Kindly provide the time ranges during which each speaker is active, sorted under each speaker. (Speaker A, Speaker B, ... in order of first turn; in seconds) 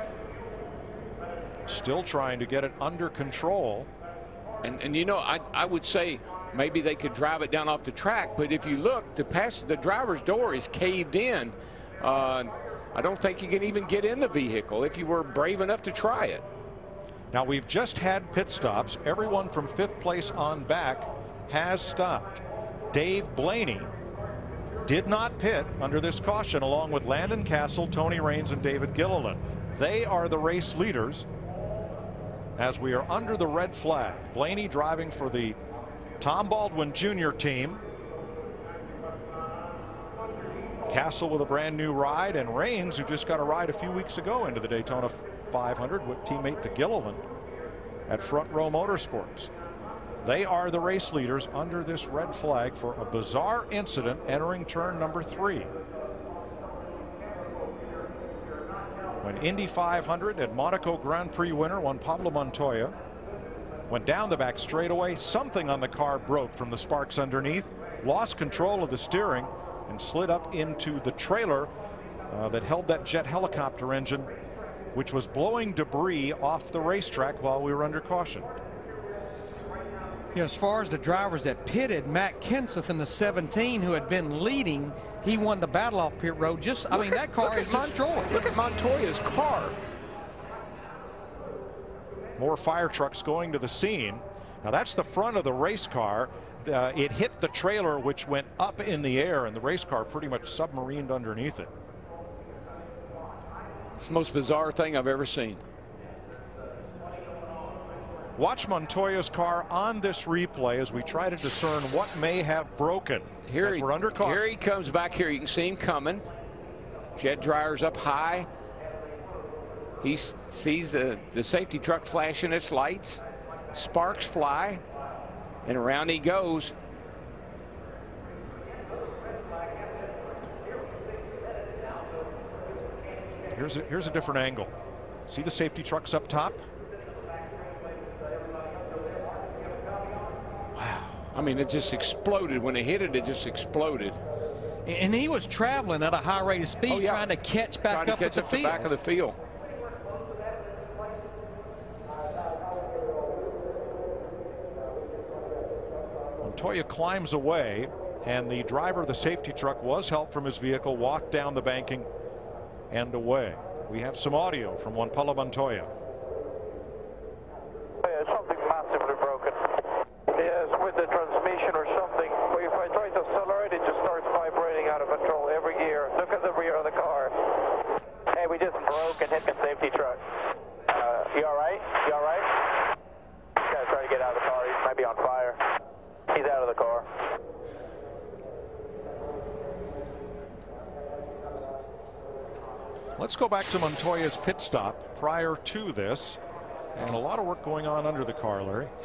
Speaker A: 1.7-3.9, 17.3-23.9, 24.9-31.3, 32.6-35.6, 36.2-37.8, 40.9-47.2, 48.1-49.5, 50.2-55.7, 59.2-63.0, 63.9-71.7, 72.3-74.3, 74.9-78.5, 92.4-101.7, 108.4-114.5, 133.5-134.7, 135.3-136.7, 156.4-162.1, 162.9-165.9, 193.2-196.4, 196.9-198.9
Speaker B: 4.6-16.4, 86.9-89.8, 104.0-105.6, 113.5-116.2, 117.2-118.5, 120.0-123.2, 123.7-124.8, 125.7-126.7, 140.8-144.2, 146.9-149.4
Speaker C: 80.3-88.6, 144.9-148.9
Speaker D: 168.0-169.6, 170.3-177.5, 178.3-180.2, 180.9-182.7, 183.6-185.6, 186.3-187.1